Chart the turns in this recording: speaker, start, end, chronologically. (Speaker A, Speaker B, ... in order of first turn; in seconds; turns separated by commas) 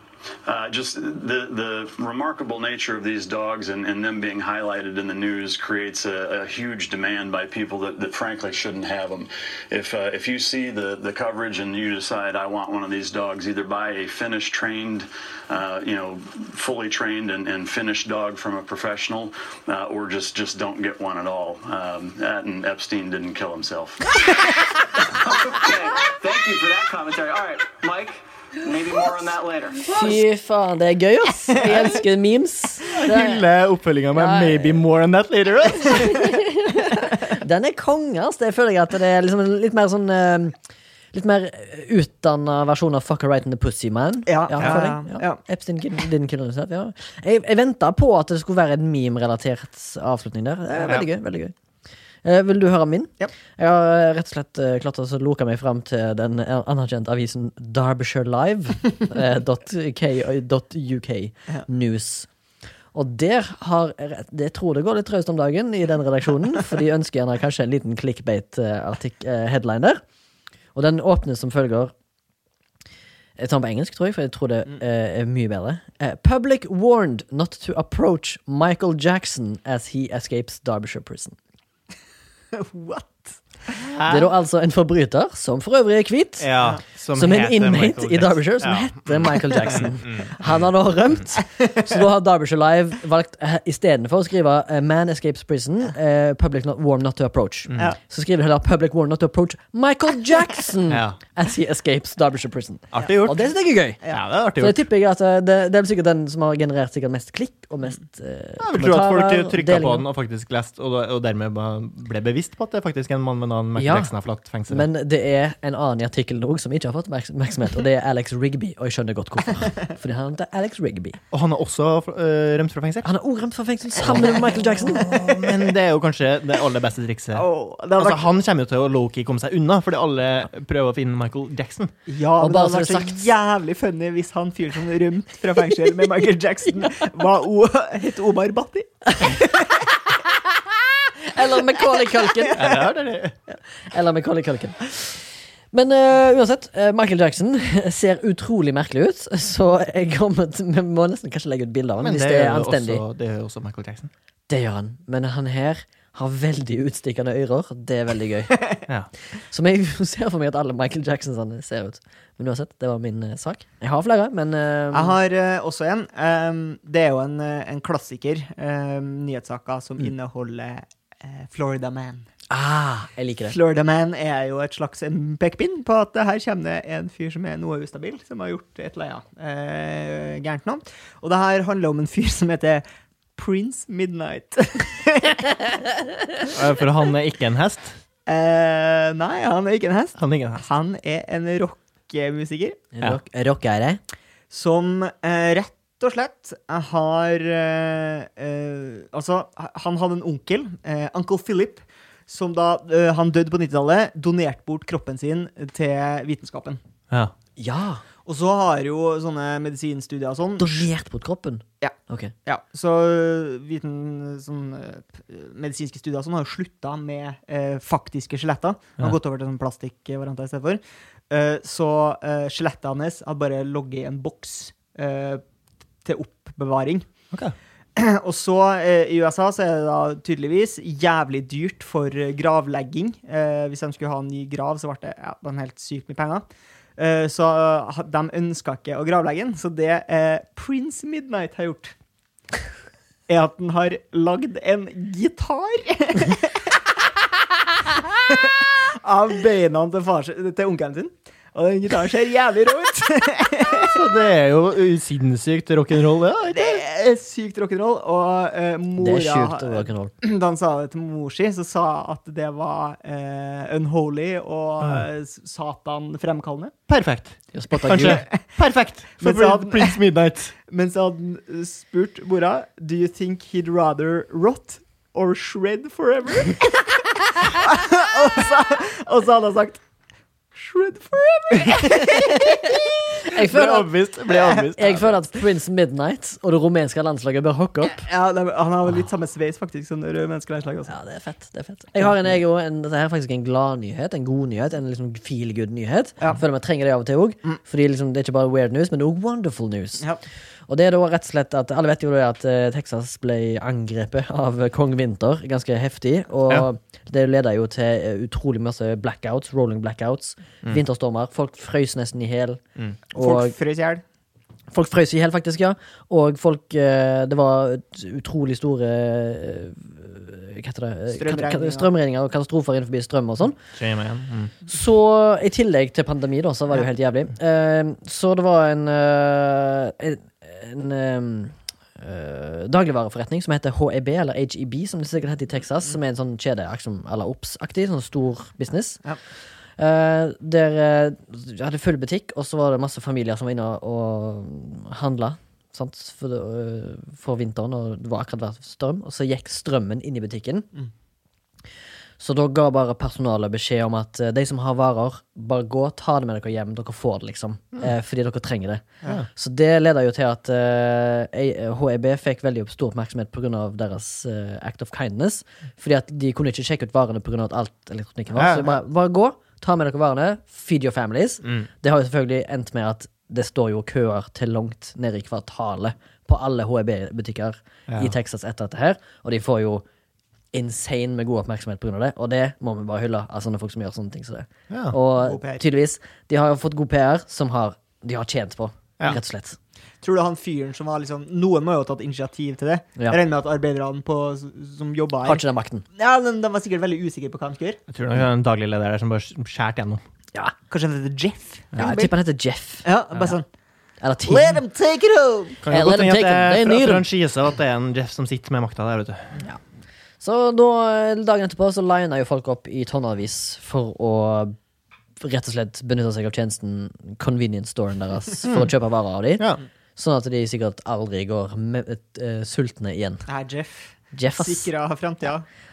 Speaker A: 0.4-24.2, Speaker B: 25.1-30.2, Speaker C: 29.8-33.4, Speaker D: 32.9-36.2, Speaker C: 34.1-34.8, Speaker C: 36.0-40.6, Speaker C: 41.1-51.5, Speaker E: 44.3-45.4, Speaker C: 52.2-62.3, Speaker C: 62.9-70.0, Speaker C: 70.7-71.9, Speaker C: 73.4-81.3, Speaker E: 82.5-83.7, Speaker D: 83.7-84.3, Speaker C: 84.1-86.5, Speaker D: 86.4-90.7, Speaker C: 87.1-104.0, Speaker D: 97.7-97.9, Speaker D: 100.9-101.2, Speaker D: 102.9-103.5, Speaker D: 104.1-104.8, Speaker C: 104.5-110.0, Speaker D: 108.6-114.9, Speaker C: 113.8-114.1, Speaker C: 114.7-121.2, Speaker D: 121.3-123.1, Speaker C: 123.0-125.1, Speaker D: 124.0-131.9, Speaker E: 125.1-125.6, Speaker E: 127.3-128.2, Speaker E: 132.1-139.8, Speaker C: 132.4-133.2, Speaker C: 141.2-142.6, Speaker E: 142.3-142.8, Speaker D: 142.6-143.3, Speaker C: 143.8-153.0, Speaker D: 152.0-154.1, Speaker C: 154.5-158.6, Speaker C: 159.4-165.2, Speaker E: 164.9-172.3, Speaker C: 172.5-173.5, Speaker E: 173.5-182.8, Speaker E: 183.4-185.5, Speaker D: 186.4-188.0, Speaker E: 188.2-192.8, Speaker D: 190.2-190.6, Speaker C: 192.9-194.0, Speaker E: 194.5-206.8, Speaker C: 207.6-208.0, Speaker E: 208.2-210.9, Speaker C: 210.6-212.3, Speaker E: 212.4-225.4, Speaker E: 226.0-227.1, Speaker E: 227.9-236.4, Speaker E: 237.0-241.9, Speaker E: 243.3-246.6, Speaker E: 248.3-253.9, Speaker D: 253.8-256.8, Speaker E: 256.5-266.7, Speaker C: 259.0-260.1, Speaker D: 266.9-270.5, Speaker C: 267.5-268.2, Speaker E: 267.9-268.3, Speaker E: 269.2-270.0, Speaker E: 270.7-279.8, Speaker E: 280.5-282.9, Speaker C: 281.8-282.7, Speaker C: 283.2-283.9, Speaker D: 283.3-285.2, Speaker E: 284.3-284.6, Speaker C: 284.7-288.1, Speaker E: 287.9-290.9, Speaker C: 290.9-300.1, Speaker C: 300.7-312.6, Speaker C: 313.1-313.5, Speaker E: 313.1-314.0, Speaker C: 314.7-323.6, Speaker E: 321.1-321.9, Speaker D: 323.7-324.5, Speaker C: 324.7-339.0, Speaker C: 339.8-350.7, Speaker C: 352.2-379.8, Speaker D: 368.4-368.7, Speaker D: 377.9-378.1, Speaker C: 380.5-389.6, Speaker D: 384.7-384.9, Speaker E: 385.2-385.6, Speaker E: 390.0-395.4, Speaker C: 395.2-395.8, Speaker E: 395.9-397.8, Speaker D: 397.9-400.0, Speaker E: 400.7-402.1, Speaker C: 401.8-402.9, Speaker E: 402.8-403.4, Speaker C: 404.0-404.6, Speaker E: 404.3-405.6, Speaker D: 405.6-409.4, Speaker C: 405.7-407.1, Speaker C: 410.2-414.6, Speaker C: 415.2-423.2, Speaker D: 418.4-418.7, Speaker E: 423.3-425.4, Speaker C: 424.1-424.7